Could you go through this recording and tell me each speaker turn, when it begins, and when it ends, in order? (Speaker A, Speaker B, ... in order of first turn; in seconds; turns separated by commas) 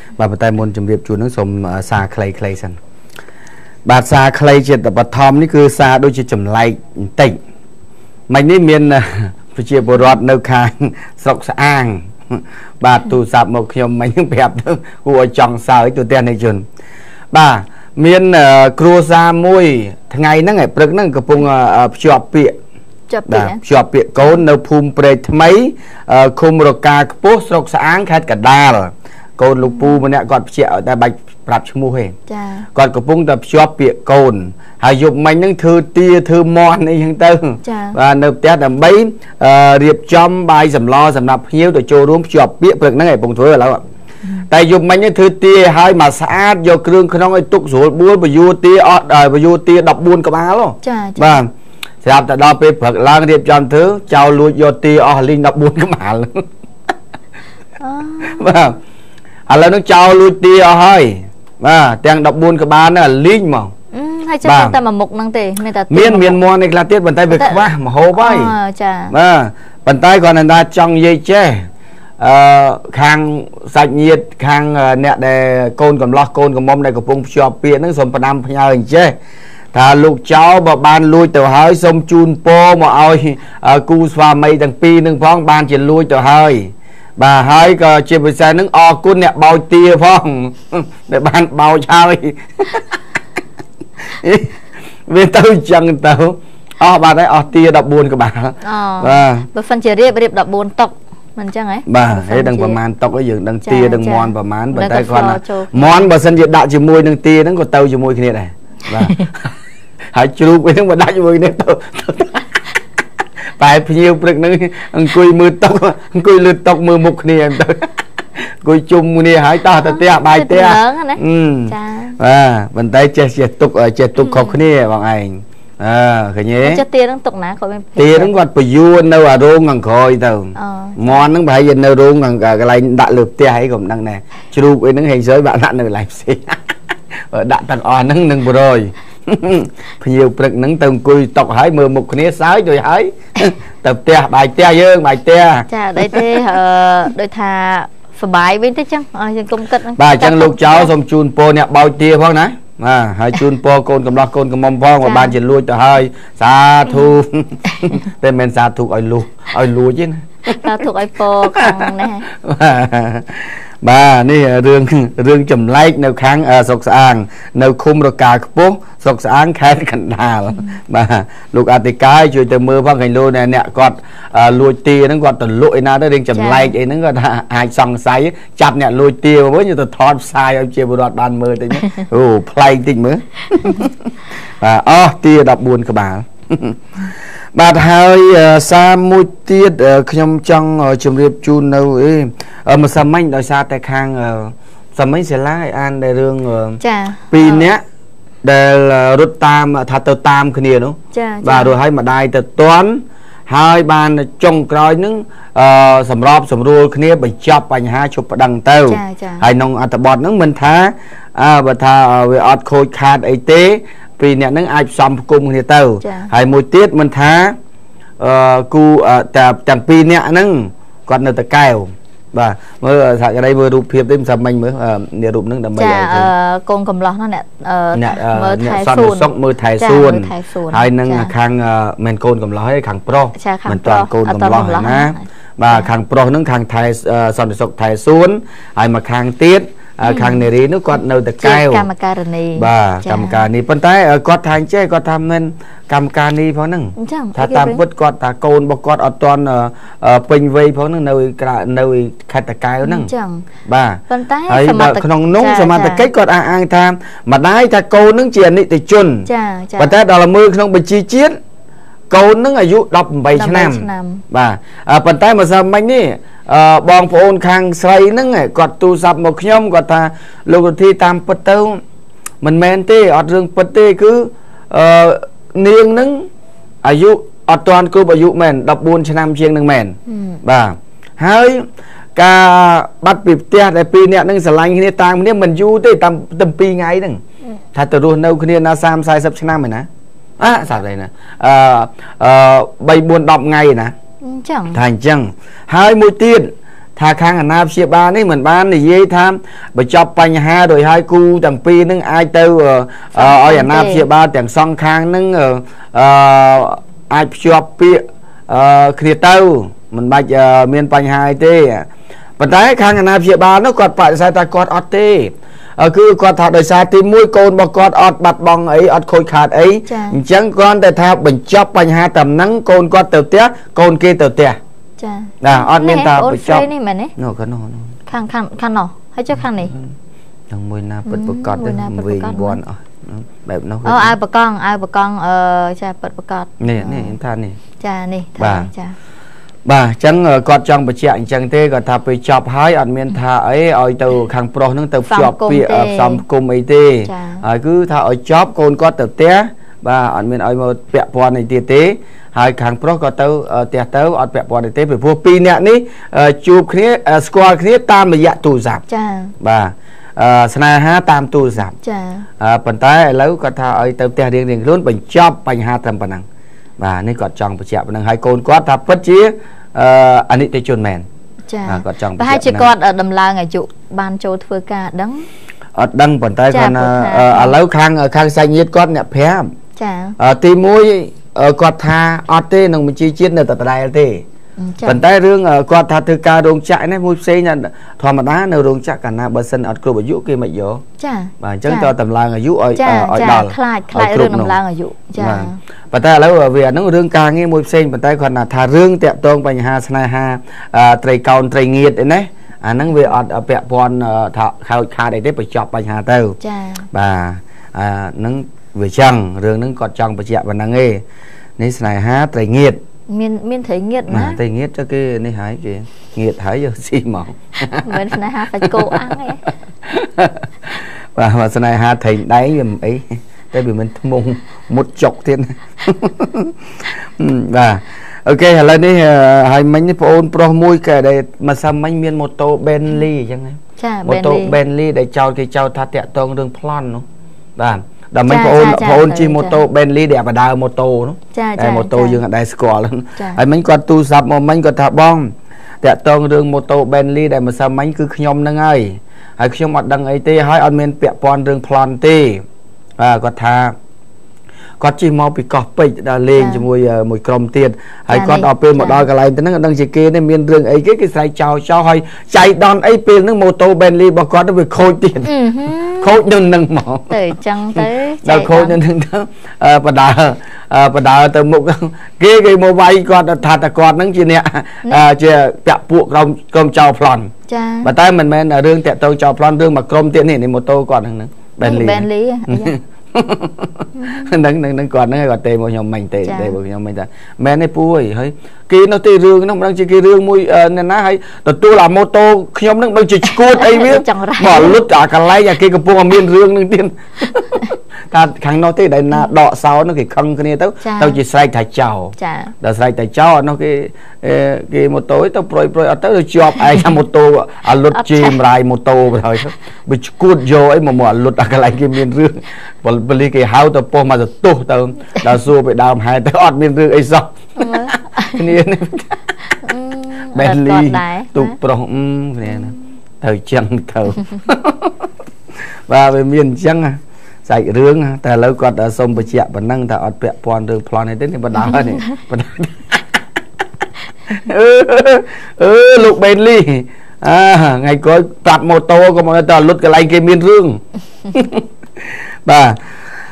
Speaker A: 0.2-2.8, Speaker A: 3.9-7.4, Speaker A: 8.3-16.6, Speaker A: 17.3-22.6, Speaker B: 23.1-23.6, Speaker A: 23.3-32.1, Speaker B: 32.3-32.7, Speaker A: 32.8-43.8, Speaker B: 37.6-38.0, Speaker A: 44.5-51.5, Speaker B: 50.8-51.4, Speaker A: 52.0-56.5, Speaker B: 57.8-58.5, Speaker A: 58.2-58.8, Speaker A: 59.5-63.7, Speaker B: 63.9-66.4, Speaker A: 64.5-64.8, Speaker A: 65.9-68.5, Speaker B: 67.3-67.7, Speaker B: 68.2-69.1, Speaker A: 69.1-71.7, Speaker A: 72.2-79.2, Speaker A: 79.7-93.0, Speaker A: 94.1-99.5, Speaker B: 98.6-102.8, Speaker A: 101.9-109.5, Speaker B: 103.7-106.1, Speaker A: 110.1-112.5, Speaker A: 113.6-126.8, Speaker B: 119.8-122.2, Speaker B: 126.6-128.3, Speaker A: 128.0-136.6, Speaker B: 130.6-131.3, Speaker A: 137.3-146.2, Speaker B: 145.7-150.9, Speaker A: 150.0-160.8, Speaker B: 155.0-155.3, Speaker B: 160.6-162.2, Speaker A: 161.4-184.1, Speaker B: 176.3-176.7, Speaker A: 184.6-197.8, Speaker B: 196.8-197.7, Speaker A: 198.4-217.6, Speaker B: 201.1-201.8, Speaker B: 208.9-209.5, Speaker B: 216.0-216.3, Speaker A: 218.2-226.3, Speaker B: 225.8-231.3, Speaker A: 227.9-241.9, Speaker B: 233.4-235.9, Speaker B: 240.0-240.4, Speaker B: 241.4-243.4, Speaker A: 242.6-253.1, Speaker B: 247.0-247.8, Speaker B: 252.8-253.5, Speaker A: 253.7-261.4, Speaker B: 254.1-256.1, Speaker B: 259.3-259.9, Speaker A: 262.1-271.8, Speaker B: 263.3-264.2, Speaker A: 272.4-276.3, Speaker A: 276.8-287.2, Speaker B: 280.1-280.4, Speaker A: 287.7-289.9, Speaker A: 290.4-293.9, Speaker B: 294.2-294.8, Speaker A: 294.7-311.9, Speaker B: 303.1-304.1, Speaker A: 312.4-324.6, Speaker B: 319.9-320.2, Speaker B: 325.0-327.1, Speaker A: 325.4-327.9, Speaker B: 328.1-329.7, Speaker A: 330.5-334.2, Speaker B: 331.1-332.6, Speaker B: 333.8-337.1, Speaker A: 336.6-337.6, Speaker B: 337.8-339.0, Speaker A: 338.4-338.7, Speaker A: 339.7-358.8, Speaker B: 345.1-346.2, Speaker B: 347.1-347.4, Speaker B: 358.9-359.3, Speaker A: 359.4-361.7, Speaker B: 361.8-362.3, Speaker A: 362.4-366.2, Speaker A: 366.8-371.1, Speaker B: 371.5-375.3, Speaker A: 371.7-372.7, Speaker A: 375.8-379.5, Speaker B: 376.5-377.6, Speaker B: 379.8-380.2, Speaker A: 380.2-384.2, Speaker B: 384.6-385.0, Speaker A: 384.9-390.8, Speaker B: 391.0-391.9, Speaker A: 391.4-394.6, Speaker B: 392.8-395.6, Speaker A: 395.2-406.4, Speaker B: 406.4-406.9, Speaker A: 406.9-411.0, Speaker A: 411.6-412.8, Speaker B: 413.1-414.4, Speaker A: 414.1-418.0, Speaker B: 417.8-419.4, Speaker A: 418.6-419.0, Speaker A: 419.9-426.6, Speaker A: 427.1-437.1, Speaker B: 433.8-434.6, Speaker A: 437.6-452.4, Speaker B: 438.3-439.6, Speaker B: 441.3-442.2, Speaker A: 453.0-453.8, Speaker A: 454.8-465.3, Speaker B: 456.4-456.6, Speaker B: 458.1-459.0, Speaker B: 465.2-466.1, Speaker A: 466.0-467.2, Speaker B: 467.1-468.8, Speaker A: 467.8-477.3, Speaker B: 477.5-477.9, Speaker A: 477.8-519.4, Speaker B: 481.6-482.8, Speaker B: 484.0-484.3, Speaker B: 486.2-486.6, Speaker B: 493.4-494.8, Speaker B: 500.8-501.2, Speaker B: 502.2-502.5, Speaker B: 507.9-508.4, Speaker B: 517.6-518.5, Speaker B: 519.6-521.5, Speaker A: 520.3-525.1, Speaker A: 525.9-533.1, Speaker A: 534.3-541.6, Speaker A: 542.5-542.8